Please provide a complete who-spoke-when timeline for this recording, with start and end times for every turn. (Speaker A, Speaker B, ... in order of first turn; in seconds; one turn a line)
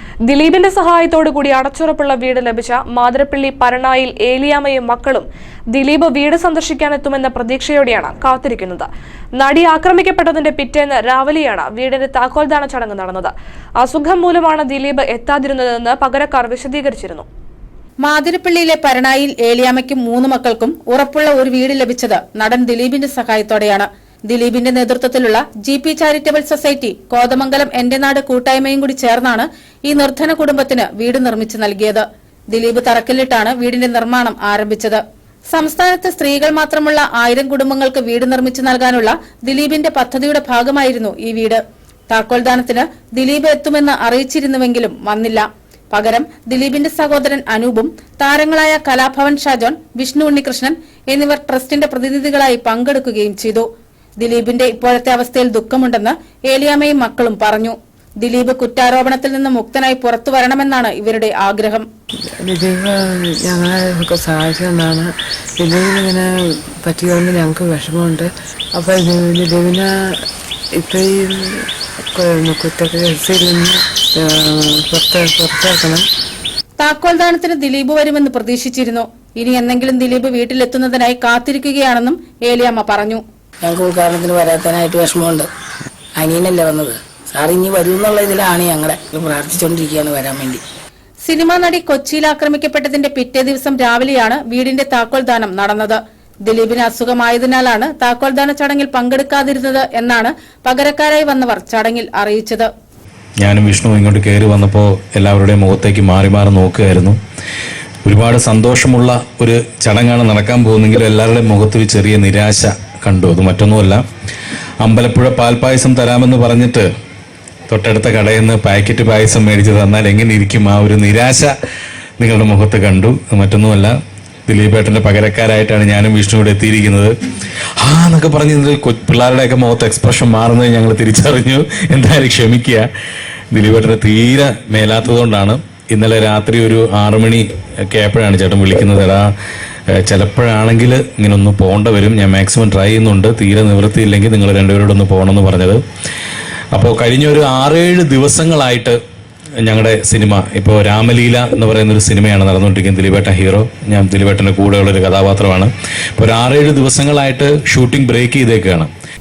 Speaker A: 0.3-17.2
Speaker B: 18.0-35.0
Speaker B: 35.5-53.7
Speaker B: 54.2-61.8
Speaker C: 62.4-66.3
Speaker C: 66.8-69.9
Speaker C: 70.8-76.0
Speaker B: 76.8-83.2
Speaker D: 83.6-85.5
Speaker D: 86.2-90.6
Speaker B: 91.2-102.7
Speaker E: 103.4-107.2
Speaker E: 108.0-114.0
Speaker E: 114.8-116.9
Speaker E: 117.7-121.5
Speaker E: 122.2-124.0
Speaker E: 124.5-127.1
Speaker E: 127.8-132.9
Speaker E: 133.5-139.3
Speaker E: 139.9-145.8
Speaker E: 146.7-149.0
Speaker E: 149.6-158.9